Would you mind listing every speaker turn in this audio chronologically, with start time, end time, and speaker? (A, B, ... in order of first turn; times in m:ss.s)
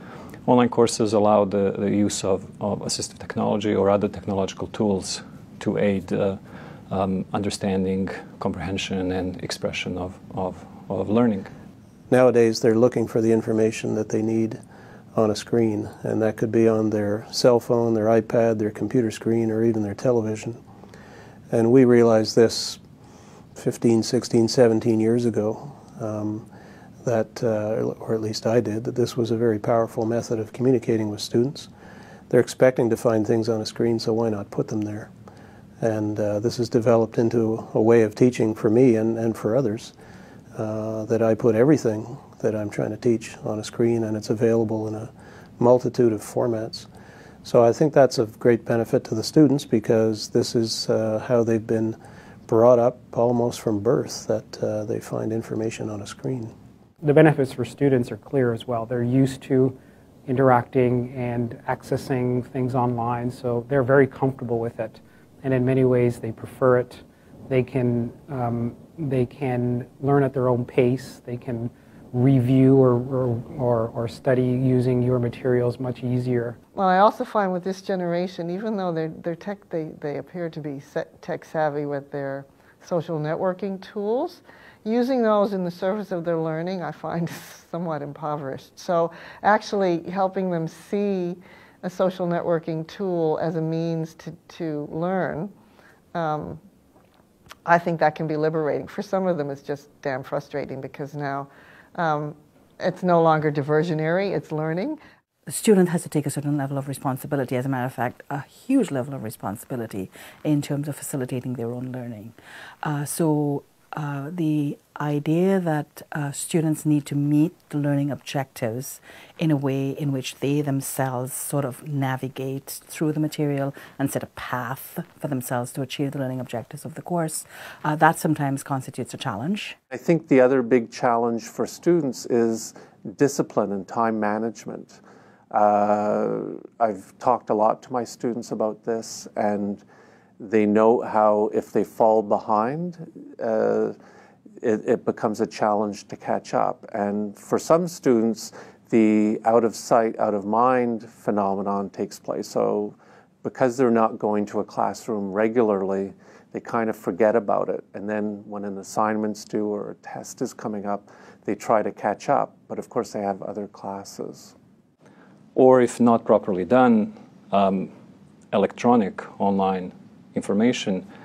0:00.5-0:11.5 A
0:12.1-0:14.6 B
0:15.2-0:20.6 B
0:21.5-0:22.8 B
0:23.6-0:26.5 B
0:27.0-0:31.7 B
0:32.3-0:35.1 B
0:35.8-0:39.9 B
0:40.6-0:46.9 B
0:47.4-0:56.5 B
0:57.0-1:16.6 C
1:16.7-1:35.5 D
1:36.1-1:36.6 D
1:37.7-1:45.0 D
1:45.5-2:09.8 E
2:09.9-2:15.0 F
2:15.5-2:19.8 F
2:20.4-2:24.0 F
2:24.6-2:44.5 F
2:45.5-2:47.9 A
2:48.5-2:51.1 A